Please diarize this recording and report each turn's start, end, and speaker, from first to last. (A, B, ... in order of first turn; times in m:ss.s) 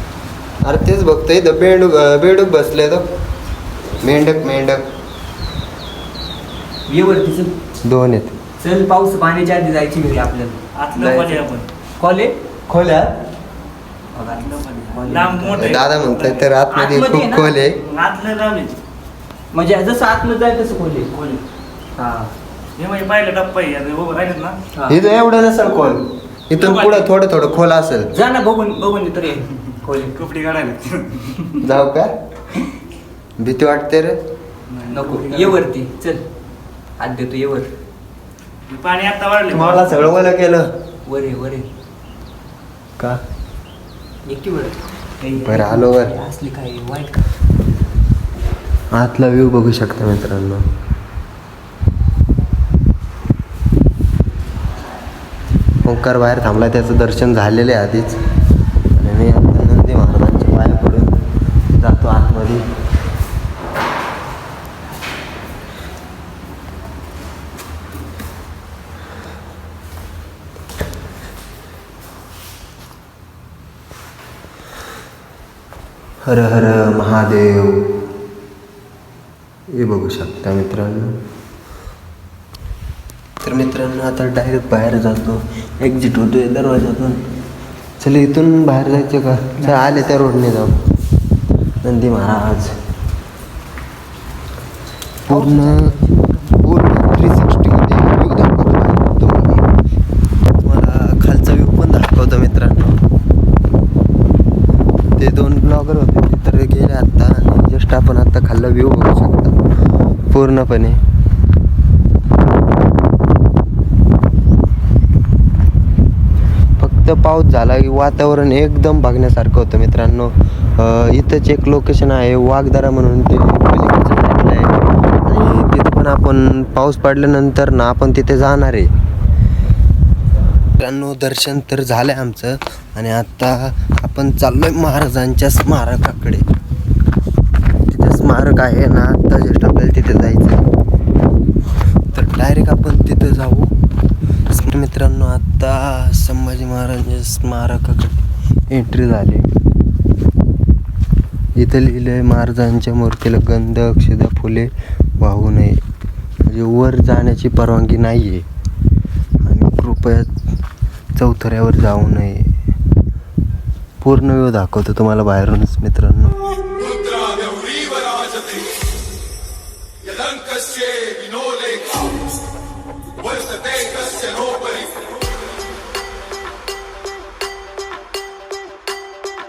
0:00.6-0:03.1 A
0:04.0-0:04.8 A
0:06.9-0:07.5 B
0:07.8-0:08.3 A
0:08.6-0:10.6 B
0:10.8-0:11.7 C
0:11.0-0:11.3 A
0:12.0-0:13.1 B
0:14.1-0:15.7 B
0:14.4-0:16.5 C
0:15.5-0:17.8 A
0:16.7-0:17.5 B
0:17.8-0:18.8 C
0:19.5-0:21.1 B
0:21.1-0:21.4 C
0:22.0-0:22.3 B
0:22.8-0:24.6 C
0:24.7-0:25.0 B
0:24.9-0:28.1 A
0:26.5-0:27.1 C
0:28.1-0:30.2 B
0:30.2-0:31.6 C
0:31.6-0:32.1 A
0:33.4-0:34.2 A
0:34.7-0:35.6 C
0:34.9-0:36.2 B
0:37.0-0:37.7 B
0:38.7-0:40.2 C
0:39.5-0:40.7 A
0:41.0-0:41.7 B
0:44.2-0:47.2 B
0:45.4-0:46.1 A
0:48.9-0:50.6 A
0:55.8-0:58.2 A
0:58.9-1:01.2 A
1:01.8-1:02.6 A
1:16.2-1:17.8 A
1:19.7-1:21.2 A
1:23.4-1:27.2 A
1:28.0-1:30.7 A
1:29.6-1:30.0 B
1:31.8-1:32.7 A
1:35.3-1:35.9 A
1:35.3-1:36.6 B
1:36.6-1:39.7 A
1:40.6-1:43.0 A
1:45.2-1:49.6 A
1:50.3-1:51.0 A
1:56.8-2:08.9 A
2:10.8-2:16.4 A
2:17.9-2:20.7 A
2:22.1-2:23.7 A
2:24.5-2:29.5 A
2:31.6-2:35.8 A
2:36.4-2:38.4 A
2:39.4-2:40.3 A
2:41.2-2:42.5 A
2:44.0-2:46.9 A